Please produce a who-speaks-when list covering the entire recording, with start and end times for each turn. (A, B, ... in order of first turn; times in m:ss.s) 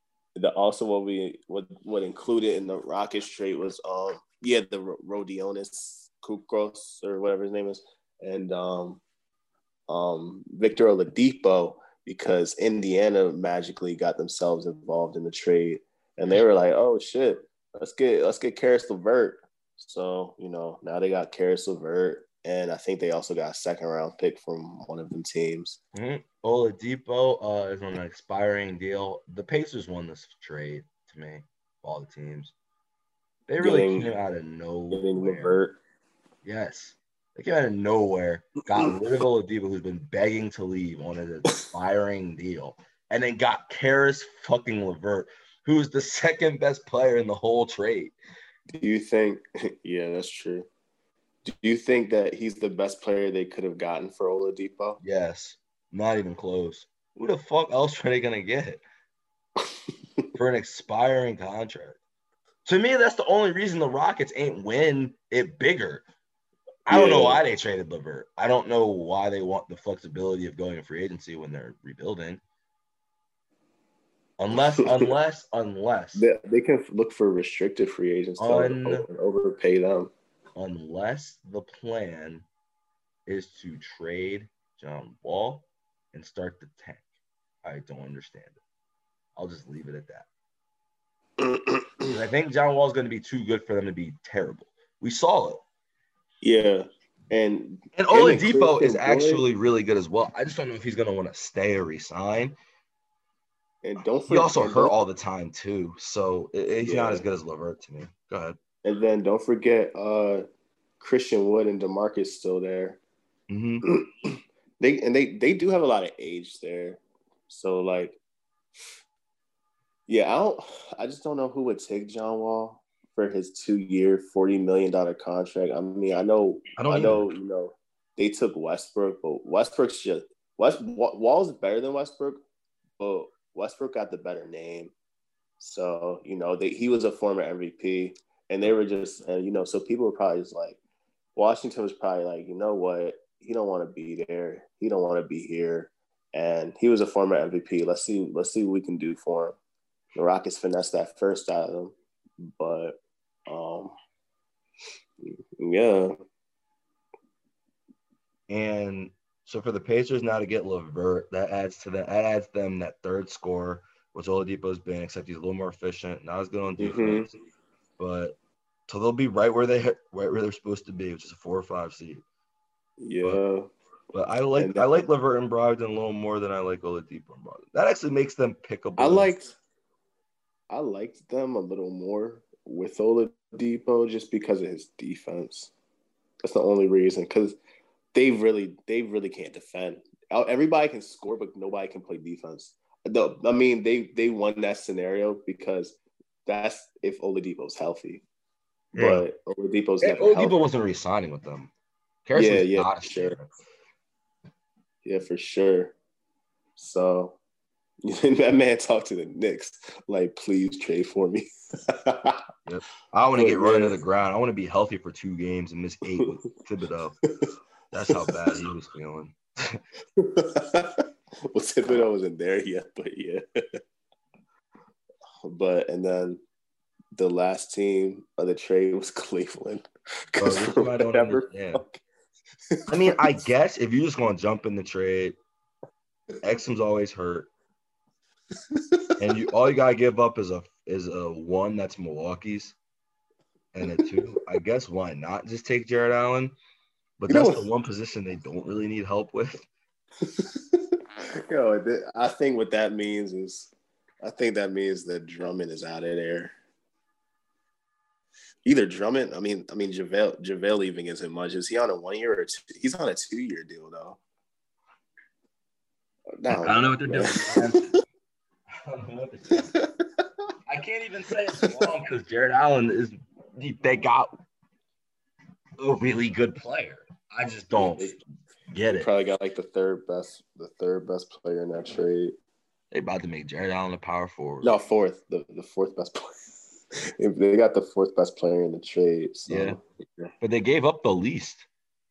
0:00.4-0:09.0 A
0:09.9-0:25.8 A
0:26.0-0:32.5 B
0:33.5-0:35.6 B
0:33.6-0:34.1 A
0:34.9-0:35.8 A
0:36.4-0:48.1 B
0:48.7-0:50.7 A
0:51.4-0:55.0 A
0:55.0-0:58.8 B
1:00.4-1:02.0 B
1:02.7-1:06.0 B
1:06.9-1:12.4 B
1:06.9-1:07.4 A
1:14.4-1:16.3 B
1:16.1-1:20.1 A
1:18.4-1:19.1 B
1:20.6-1:22.4 B
1:23.3-1:27.0 B
1:27.6-1:28.6 B
1:29.4-1:30.3 B
1:31.4-1:32.1 A
1:32.0-1:35.6 B
1:36.4-1:39.4 A
1:37.9-1:42.6 B
1:43.8-1:44.9 A
1:44.3-1:48.6 B
1:46.8-1:47.2 A
1:48.8-1:50.4 A
1:51.0-1:53.0 A
1:53.5-1:53.9 B
1:53.9-1:58.2 A
2:00.1-2:12.4 A
2:06.8-2:07.3 B
2:13.0-2:14.9 A
2:15.6-2:20.8 A
2:21.4-2:29.6 A
2:30.1-2:34.0 A
2:35.6-2:36.1 A
2:38.5-2:47.3 B
2:46.8-2:47.3 A
2:48.0-2:48.4 B
2:48.9-2:52.2 B
2:53.0-2:53.7 A
2:54.1-2:59.3 B
2:54.6-2:55.1 A
2:59.0-2:59.5 A
3:00.7-3:05.7 A
3:06.4-3:07.6 A
3:08.1-3:18.2 A
3:18.9-3:19.2 B
3:19.0-3:20.6 A
3:20.0-3:21.7 B
3:22.3-3:23.5 B
3:22.4-3:23.4 A
3:25.0-3:26.0 A
3:26.8-3:27.4 A
3:28.0-3:32.4 A
3:32.7-3:37.2 B
3:33.4-3:34.0 A
3:37.9-3:39.8 B
3:40.2-3:43.4 A
3:45.4-3:46.4 A
3:47.2-3:52.0 A
3:50.4-3:51.8 B
3:52.7-3:53.2 A
3:52.9-3:55.4 B
3:56.4-3:57.5 B
3:58.7-3:59.1 A
3:59.2-4:02.8 B
4:03.7-4:06.5 B
4:07.2-4:09.7 B
4:07.3-4:07.6 A
4:10.2-4:13.7 A
4:14.2-4:16.5 A
4:18.6-4:24.2 A
4:26.4-4:27.6 A
4:26.5-4:27.9 B
4:28.8-4:29.8 B
4:29.7-4:30.2 A
4:30.7-4:34.4 B
4:35.8-4:39.1 B
4:37.7-4:38.2 A
4:38.9-4:42.3 A
4:42.9-4:44.8 B
4:44.6-4:46.4 A
4:47.2-4:50.3 A
4:49.5-4:49.8 B
4:50.4-4:51.7 B